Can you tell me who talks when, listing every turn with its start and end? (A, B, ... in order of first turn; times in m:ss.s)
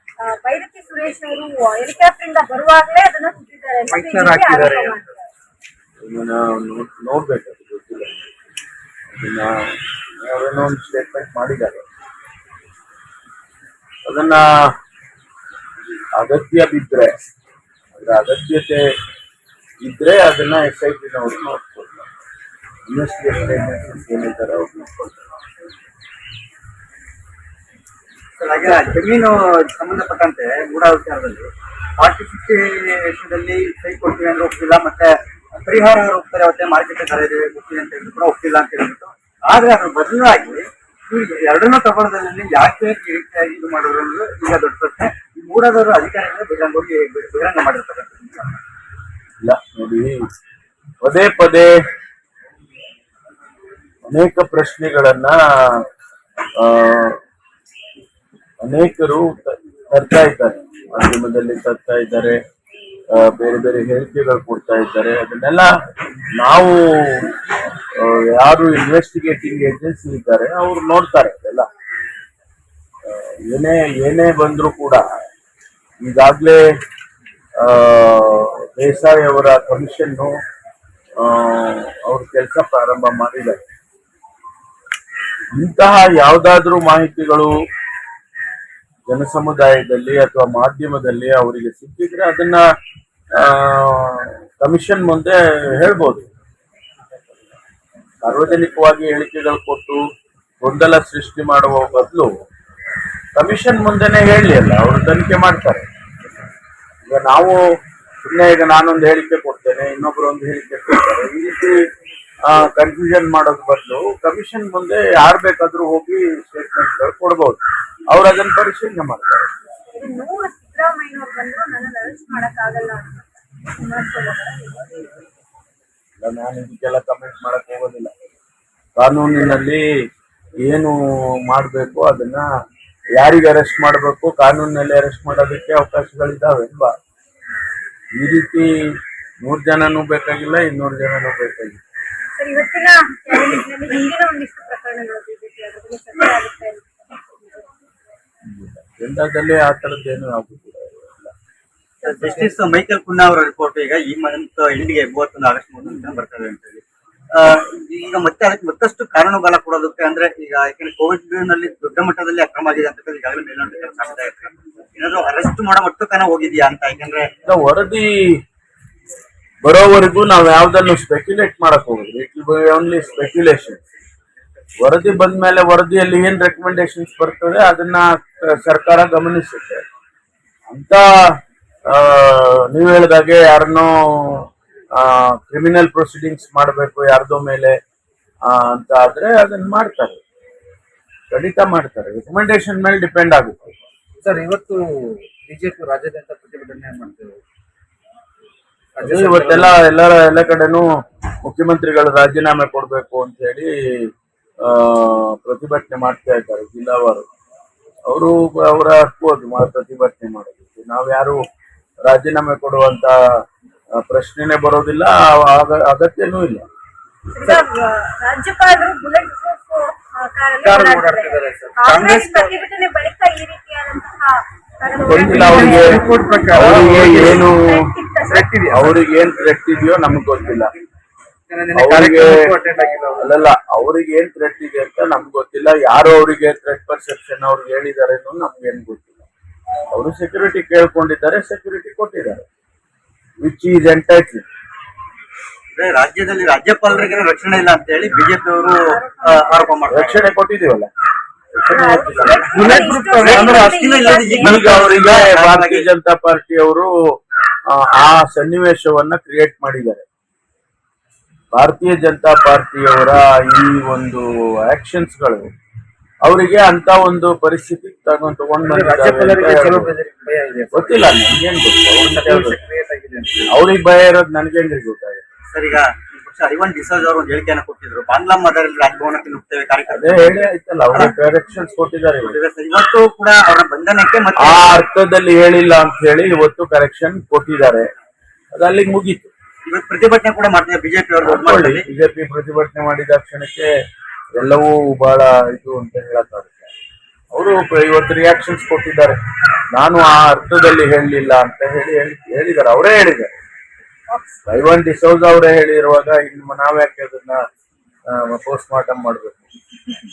0:00.2-0:05.2 A
0:03.9-0:05.0 B
0:06.0-0:08.1 C
0:09.1-0:09.5 C
0:10.2-0:11.8 C
0:14.0-0:14.4 C
0:16.2-0:17.1 C
0:18.0-0:18.8 C
0:19.8-0:22.1 C
0:22.9-0:25.3 C
0:28.4-0:31.5 D
0:32.0-0:48.6 D
0:49.4-0:50.2 C
0:51.0-0:51.7 C
0:54.1-0:55.8 C
0:56.6-0:57.2 C
0:58.6-1:02.4 C
1:03.2-1:05.7 C
1:06.4-1:06.8 C
1:08.0-1:11.7 C
1:13.1-1:15.0 C
1:16.0-1:16.6 C
1:17.6-1:20.3 C
1:21.2-1:23.6 C
1:25.5-1:27.5 C
1:29.1-1:32.6 C
1:33.4-1:36.2 C
1:38.2-1:40.0 C
1:40.6-1:42.3 C
1:43.4-1:45.8 C
1:47.1-1:47.6 C
1:48.2-1:51.8 C
1:52.5-1:57.6 C
1:58.1-1:59.5 C
1:59.9-2:05.1 A
2:06.2-2:08.1 C
2:09.0-2:09.8 C
2:10.6-2:12.4 C
2:13.2-2:16.9 C
2:18.2-2:18.7 C
2:19.4-2:21.8 C
2:22.4-2:27.6 A
2:28.5-2:31.3 C
2:32.0-2:32.5 A
2:32.0-2:36.8 D
2:37.4-2:47.3 D
2:47.5-2:48.1 C
2:49.6-2:53.8 C
2:54.8-2:59.8 C
3:00.7-3:01.1 C
3:01.9-3:07.8 C
3:08.5-3:10.2 C
3:11.3-3:13.6 C
3:14.2-3:17.4 B
3:19.0-3:19.8 B
3:19.0-3:20.9 C
3:21.4-3:24.1 C
3:24.6-3:27.2 C
3:28.1-3:31.5 C
3:32.1-3:33.1 C
3:34.0-3:36.6 C
3:37.3-3:48.5 A
3:40.6-3:42.5 B
3:45.1-3:47.6 C
3:45.1-3:47.4 B
3:48.3-3:49.5 B
3:48.7-3:50.7 C
3:51.5-3:53.3 B
3:51.7-3:52.3 C
3:53.2-3:59.3 C
3:59.9-4:02.4 C
4:03.4-4:04.4 C
4:05.8-4:10.2 D
4:08.8-4:10.0 A
4:09.9-4:10.9 C
4:11.6-4:12.8 C
4:11.7-4:14.9 A
4:12.5-4:15.9 D
4:12.6-4:13.5 B
4:14.4-4:16.9 C
4:17.7-4:20.0 C
4:21.5-4:25.4 C
4:26.2-4:29.9 C
4:28.6-4:31.1 B
4:30.7-4:32.6 C
4:32.0-4:33.6 B
4:33.5-4:35.2 C
4:35.5-4:41.2 D
4:39.9-4:42.4 C
4:42.2-4:44.8 D
4:44.4-4:47.8 C
4:48.5-4:49.3 C
4:49.7-4:51.8 D
4:51.2-4:53.7 C
4:54.4-4:56.7 C
4:57.3-4:59.2 C
4:59.8-5:03.3 C
5:04.5-5:07.4 C
5:08.1-5:09.4 C